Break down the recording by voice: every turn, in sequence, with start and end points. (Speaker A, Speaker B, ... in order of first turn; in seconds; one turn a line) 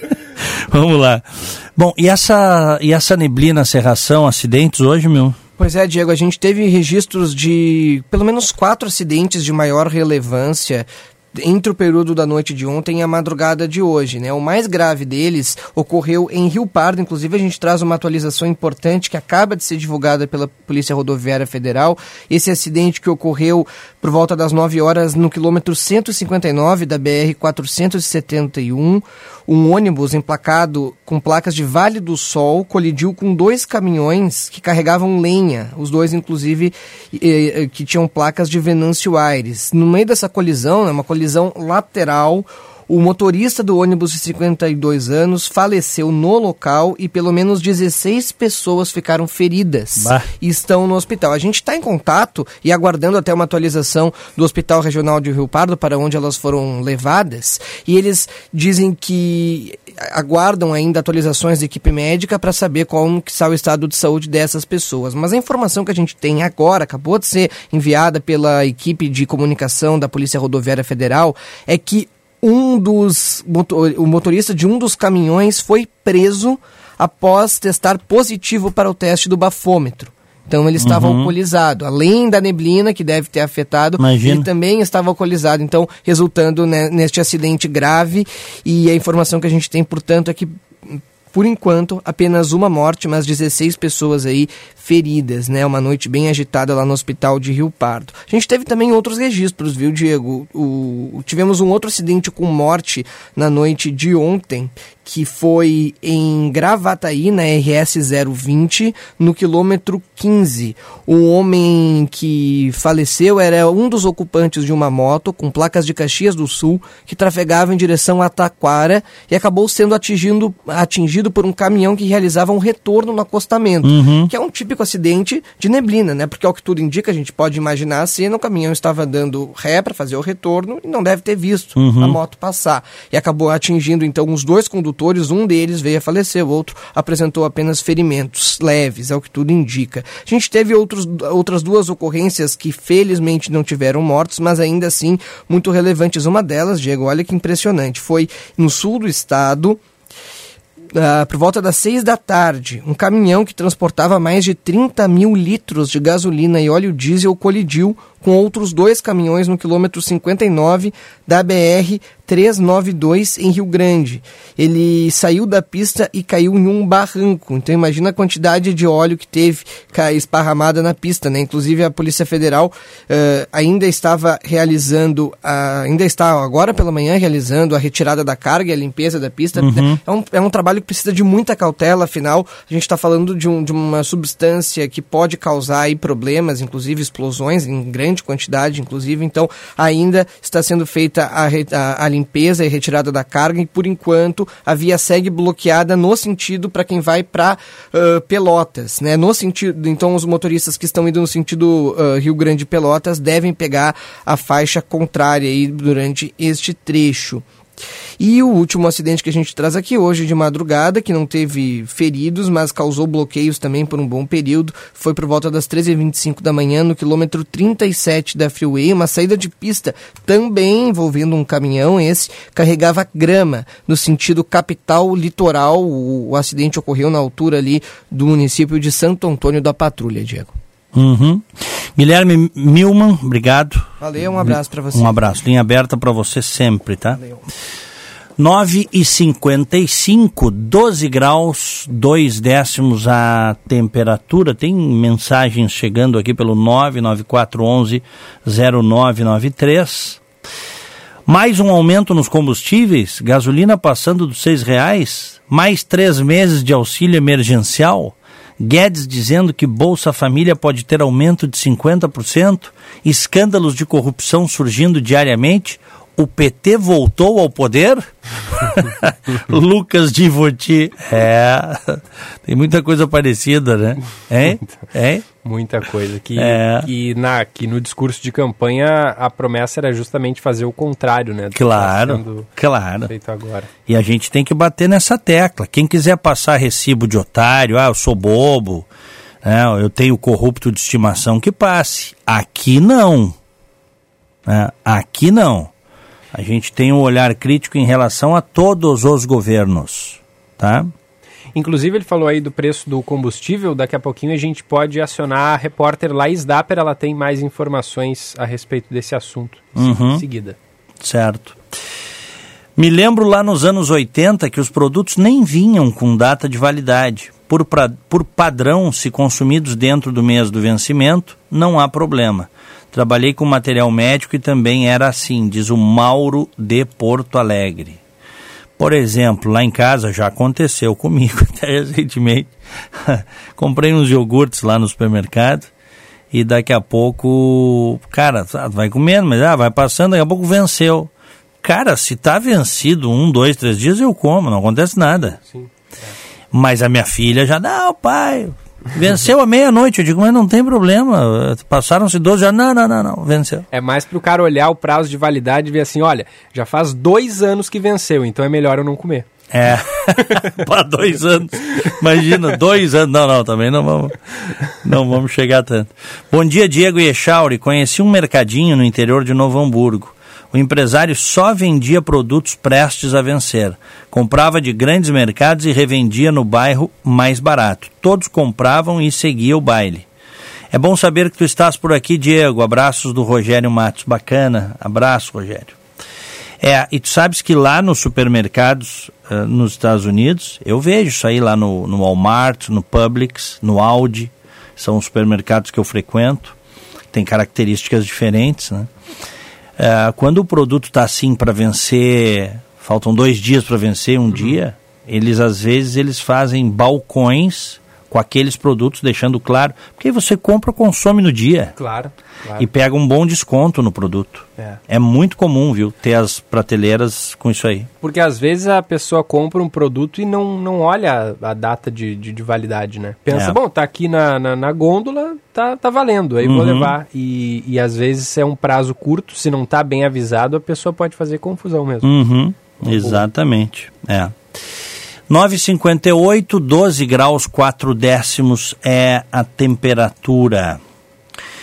Speaker A: 0.4-5.4
Speaker B: 5.6-149.8
Speaker A: 50.0-50.3
Speaker A: 80.8-81.3
Speaker A: 84.0-84.5
Speaker A: 123.8-124.3
Speaker A: 131.8-132.2
Speaker B: 150.9-207.4
Speaker A: 179.6-180.0
Speaker B: 208.2-230.5
Speaker A: 230.9-237.2
Speaker B: 234.0-235.3
Speaker A: 238.4-250.2
Speaker A: 251.3-275.2
Speaker C: 275.4-282.5
Speaker A: 276.4-276.9
Speaker A: 281.5-283.1
Speaker C: 283.0-283.7
Speaker A: 283.9-288.9
Speaker A: 289.4-293.3
Speaker A: 294.4-295.7
Speaker A: 296.3-300.9
Speaker C: 301.5-310.6
Speaker A: 309.8-310.2
Speaker A: 311.0-311.6
Speaker A: 312.8-328.0
Speaker A: 328.8-335.7
Speaker A: 336.3-341.1
Speaker A: 341.6-345.4
Speaker C: 345.5-346.1
Speaker A: 346.5-353.6
Speaker C: 353.7-359.2
Speaker A: 359.5-364.1
Speaker A: 364.8-380.1
Speaker A: 380.7-385.8
Speaker A: 386.6-396.6
Speaker A: 397.1-398.9
Speaker A: 399.8-411.7
Speaker C: 404.3-404.6
Speaker C: 411.8-412.7
Speaker A: 412.6-417.9
Speaker C: 418.0-432.1
Speaker A: 423.3-423.6
Speaker A: 426.4-426.9
Speaker A: 432.0-434.4
Speaker C: 432.8-433.2
Speaker A: 435.3-440.8